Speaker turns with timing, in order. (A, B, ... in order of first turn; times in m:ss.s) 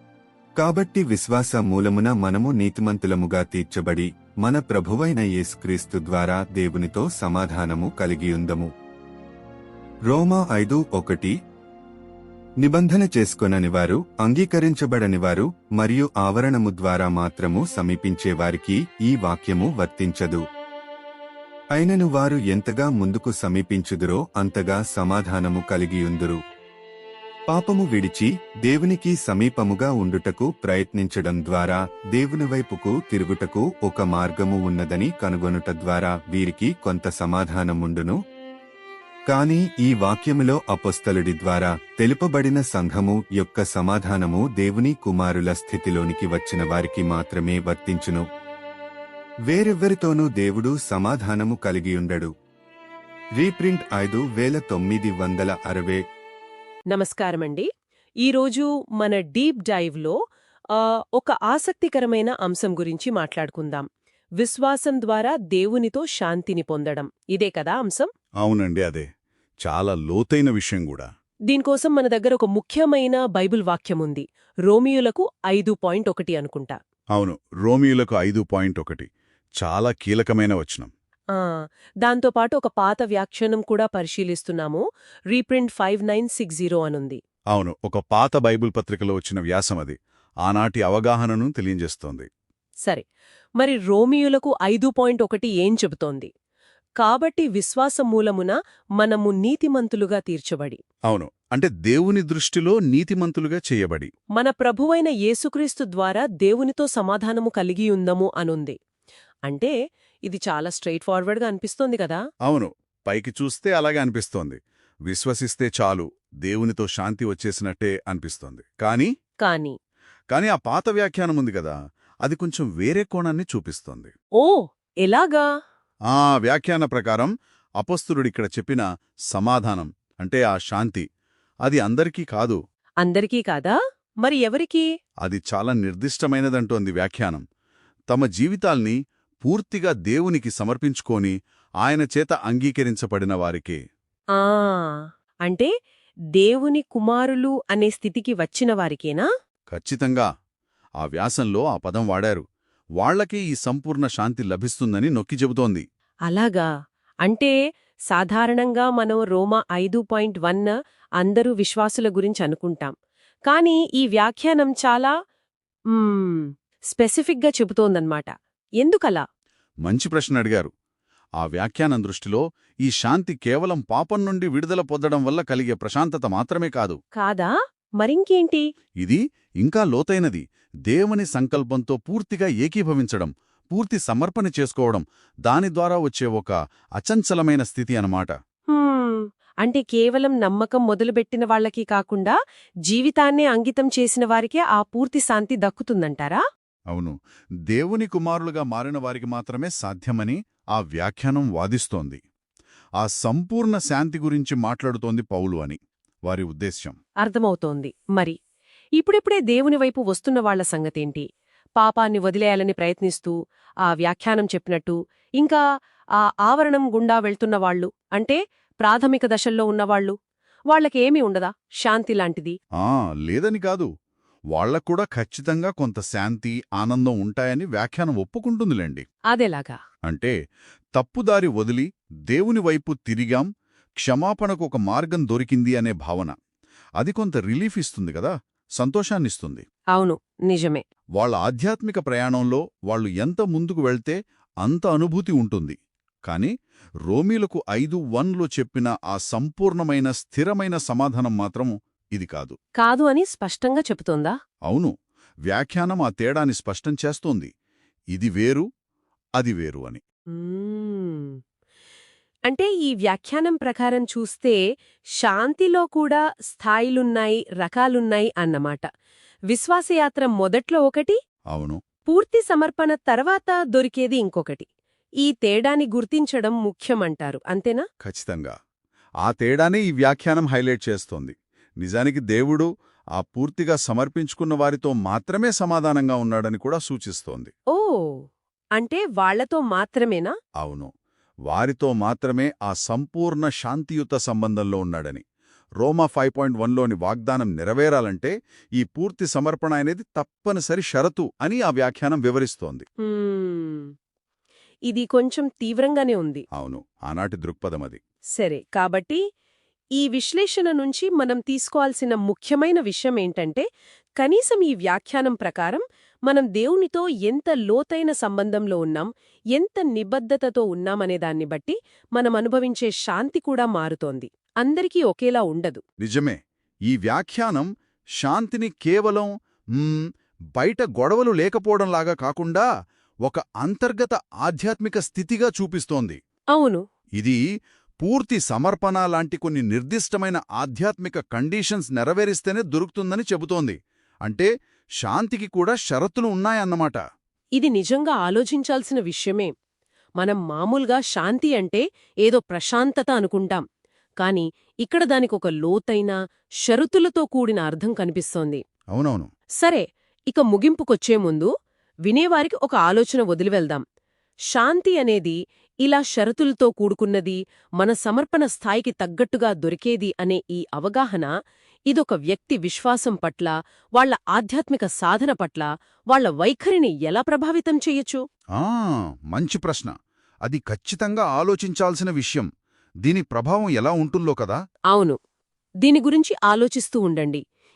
0:00.6-0:08.7 A
0:10.1-0:11.3 A
0:12.6-0:20.4 A
0:21.7-0:26.4 A
0:27.5-0:38.2 A
0:39.3-0:48.2 A
0:49.5-0:52.3 A
0:53.4-0:56.0 A
0:56.9-0:57.7 B
0:58.2-1:00.2 B
1:00.7-1:03.8 B
1:04.4-1:08.1 B
1:08.4-1:09.1 C
1:09.6-1:11.1 C
1:11.5-1:16.8 B
1:17.2-1:19.1 C
1:19.6-1:20.9 C
1:21.3-1:27.2 B
1:27.5-1:32.3 C
1:33.6-1:36.3 B
1:37.0-1:40.8 B
1:41.1-1:44.1 C
1:44.4-1:48.8 B
1:49.4-1:49.7 B
1:50.3-1:52.2 B
1:52.4-1:59.1 C
1:59.4-1:59.7 B
2:00.3-2:04.1 C
2:04.4-2:05.4 B
2:06.1-2:11.0 C
2:11.6-2:12.6 C
2:13.0-2:14.8 B
2:15.2-2:17.4 C
2:18.1-2:23.8 C
2:24.4-2:25.7 B
2:26.4-2:29.2 B
2:29.7-2:30.3 C
2:31.0-2:32.4 C
2:33.0-2:35.8 C
2:36.3-2:36.7 B
2:37.2-2:37.5 B
2:38.1-2:42.9 B
2:43.5-2:45.1 B
2:45.9-2:48.3 B
2:48.8-2:49.2 B
2:49.8-2:50.7 C
2:51.4-2:57.0 C
2:57.2-2:58.6 B
2:59.0-3:08.3 C
3:08.7-3:12.3 B
3:12.9-3:16.4 B
3:16.9-3:17.2 C
3:17.7-3:22.2 C
3:23.0-3:27.0 C
3:27.2-3:28.4 B
3:29.0-3:31.2 B
3:31.8-3:33.3 B
3:33.8-3:35.6 B
3:36.2-3:40.1 B
3:40.7-3:42.6 B
3:42.8-3:43.9 C
3:44.5-3:49.0 C
3:49.3-3:49.8 B
3:50.0-3:50.3 C
3:51.0-3:53.5 C
3:54.0-3:56.3 C
3:57.0-3:59.6 C
3:59.9-4:00.8 B
4:01.2-4:05.8 C
4:07.1-4:12.6 C
4:12.8-4:14.3 B
4:14.6-4:14.9 C
4:15.5-4:17.5 C
4:18.1-4:18.6 C
4:19.4-4:20.0 C
4:20.4-4:21.4 B
4:22.5-4:24.6 B
4:25.2-4:28.8 B
4:29.5-4:31.2 B
4:31.5-4:31.8 C
4:32.1-4:34.7 B
4:35.2-4:37.8 B
4:38.0-4:38.5 C
4:39.2-4:47.5 C
4:47.7-4:48.2 B
4:48.8-4:50.3 B
4:50.6-4:50.9 C
4:51.5-4:55.2 C
4:55.8-5:02.8 C
5:03.0-5:03.9 B
5:04.9-5:06.4 B
5:06.5-5:08.0 C
5:08.4-5:09.2 B
5:10.0-5:13.6 B
5:14.2-5:25.8 B
5:26.0-5:27.7 C
5:28.2-5:30.0 C
5:30.6-5:32.6 C
5:33.2-5:36.2 C
5:36.5-5:36.8 B
5:38.0-5:44.5 C
5:45.0-5:47.0 C
5:47.6-5:49.5 B
5:50.2-5:53.6 B
5:54.2-5:58.6 B
5:58.9-5:59.3 C
5:59.6-6:01.5 B
6:02.1-6:03.8 B
6:04.5-6:11.3 B
6:11.9-6:18.2 B
6:18.5-6:19.9 C
6:20.4-6:22.5 C
6:23.0-6:24.6 C
6:24.9-6:25.2 B
6:25.8-6:27.4 B